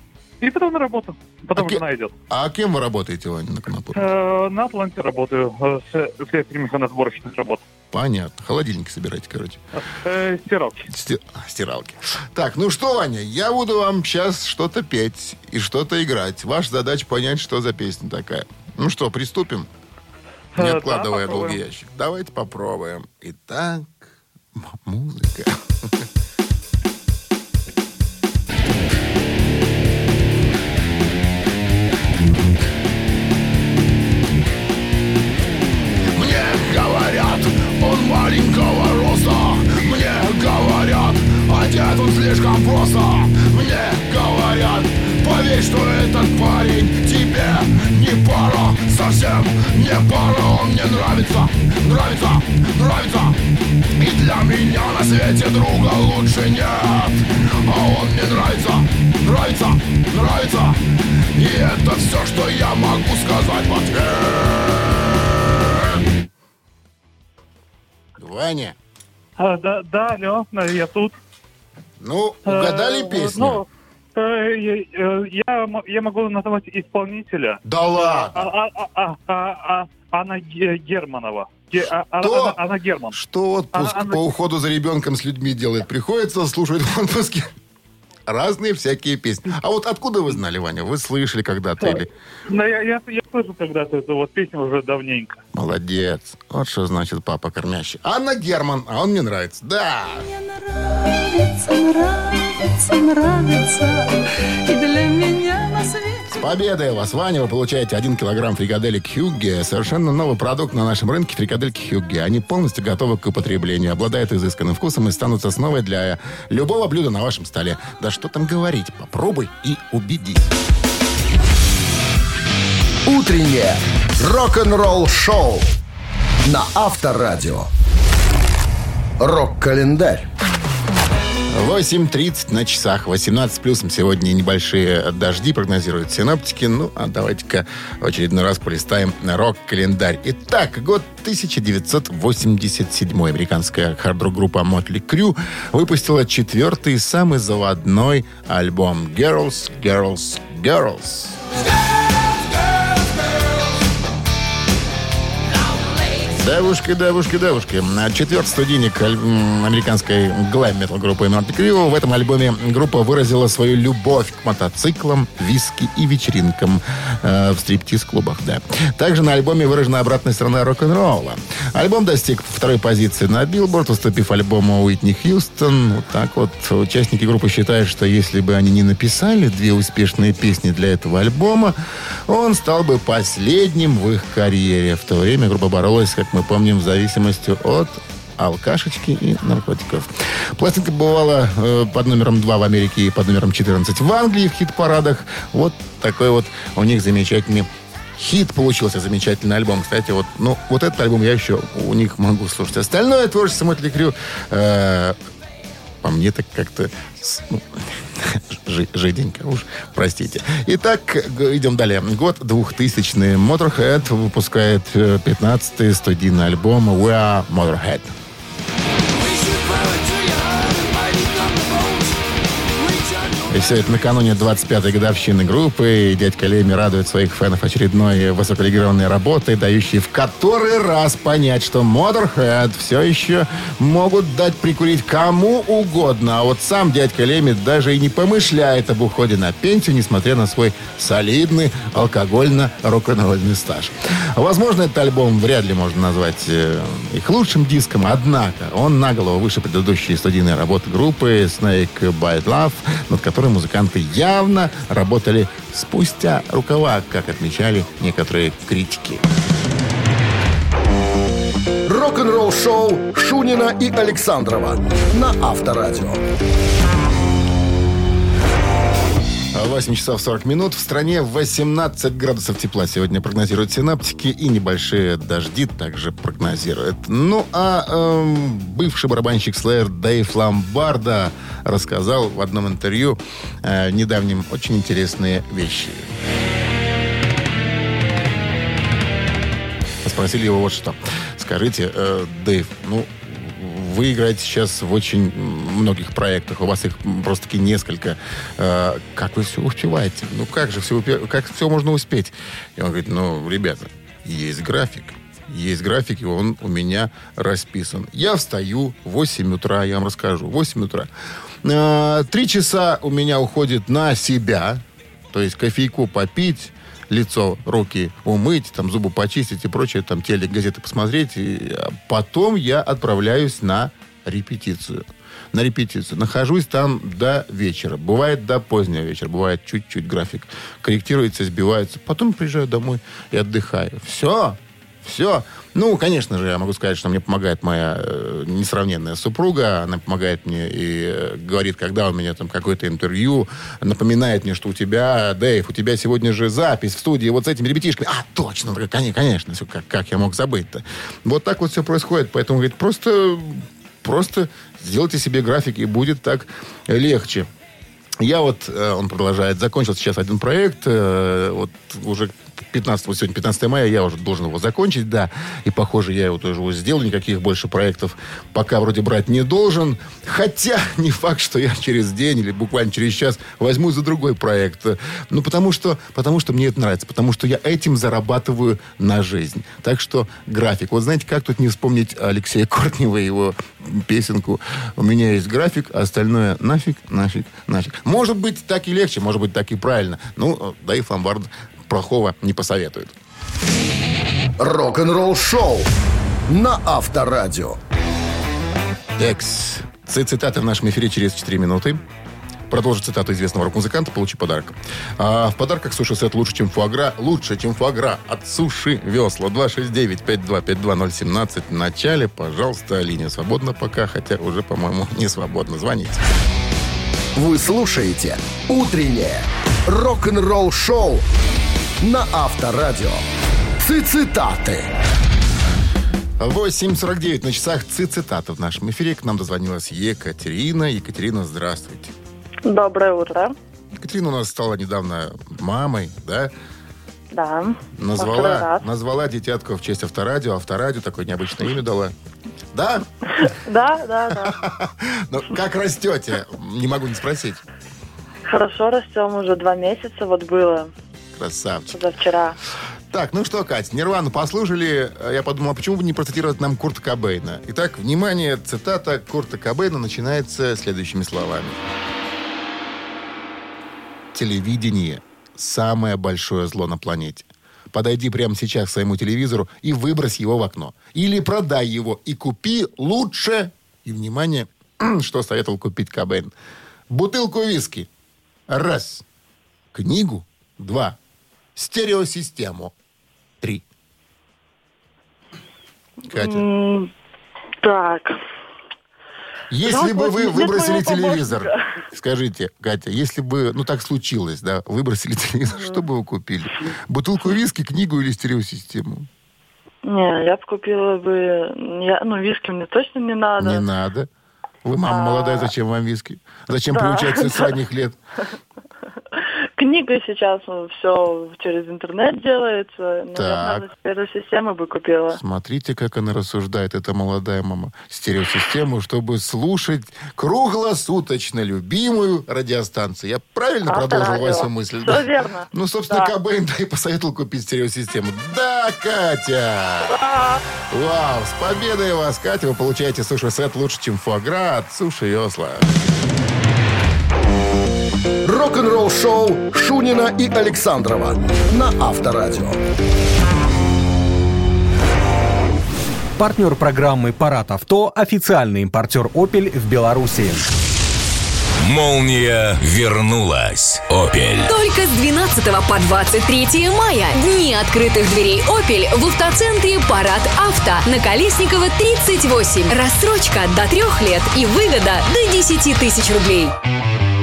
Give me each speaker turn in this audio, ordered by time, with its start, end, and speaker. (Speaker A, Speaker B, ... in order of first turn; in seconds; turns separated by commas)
Speaker A: 0.4-2.1, Speaker B: 1.6-4.1, Speaker A: 3.9-7.6, Speaker B: 7.9-9.6, Speaker A: 9.8-10.9, Speaker B: 10.9-19.7, Speaker A: 20.6-21.6, Speaker B: 20.6-25.9, Speaker B: 36.1-53.4, Speaker B: 54.0-60.8, Speaker B: 61.4-64.7, Speaker B: 68.2-68.8, Speaker A: 69.4-71.1, Speaker B: 72.0-73.6, Speaker A: 72.4-83.1, Speaker B: 77.6-78.5, Speaker B: 82.2-82.6, Speaker B: 83.1-87.5, Speaker A: 83.7-84.2, Speaker B: 88.3-92.1, Speaker A: 92.5-95.4, Speaker B: 95.5-100.2, Speaker C: 100.3-106.5, Speaker B: 106.4-120.5, Speaker D: 123.1-125.7, Speaker D: 126.5-127.7, Speaker D: 129.2-130.3, Speaker B: 131.5-151.4, Speaker B: 156.3-181.8, Speaker B: 182.3-205.2, Speaker B: 206.0-218.1, Speaker C: 219.1-222.2, Speaker C: 222.8-224.2, Speaker B: 223.5-259.3, Speaker D: 261.9-266.2, Speaker B: 269.5-286.0, Speaker B: 290.0-311.1, Speaker B: 311.6-357.5, Speaker B: 358.2-393.1, Speaker D: 394.6-395.9, Speaker D: 396.5-397.8, Speaker B: 399.2-402.0, Speaker B: 402.7-416.2, Speaker D: 417.4-421.2, Speaker D: 422.0-423.2, Speaker D: 423.8-424.9, Speaker B: 426.4-432.1, Speaker E: 432.6-433.6, Speaker B: 433.9-436.5, Speaker E: 437.3-438.9, Speaker B: 438.0-442.1, Speaker B: 442.7-443.1, Speaker E: 443.4-444.6, Speaker B: 444.4-447.6, Speaker E: 448.5-450.9, Speaker B: 451.4-452.1, Speaker E: 451.9-452.6, Speaker B: 453.1-461.8, Speaker B: 464.3-476.5, Speaker B: 477.1-478.1, Speaker B: 478.7-479.2, Speaker B: 479.9-481.2, Speaker B: 481.8-482.9, Speaker E: 486.3-487.1, Speaker B: 486.3-486.6, Speaker E: 487.8-488.4, Speaker B: 489.7-499.3, Speaker E: 489.8-492.0, Speaker E: 495.7-496.1, Speaker E: 500.1-503.9, Speaker B: 503.6-504.3, Speaker B: 504.9-508.2, Speaker E: 505.0-505.7, Speaker E: 506.9-507.8, Speaker E: 509.8-515.4, Speaker B: 513.4-513.9, Speaker B: 515.3-530.2, Speaker E: 523.9-526.4, Speaker B: 530.9-536.0, Speaker D: 538.4-542.8, Speaker F: 546.4-550.7, Speaker G: 551.8-554.7, Speaker H: 554.7-566.7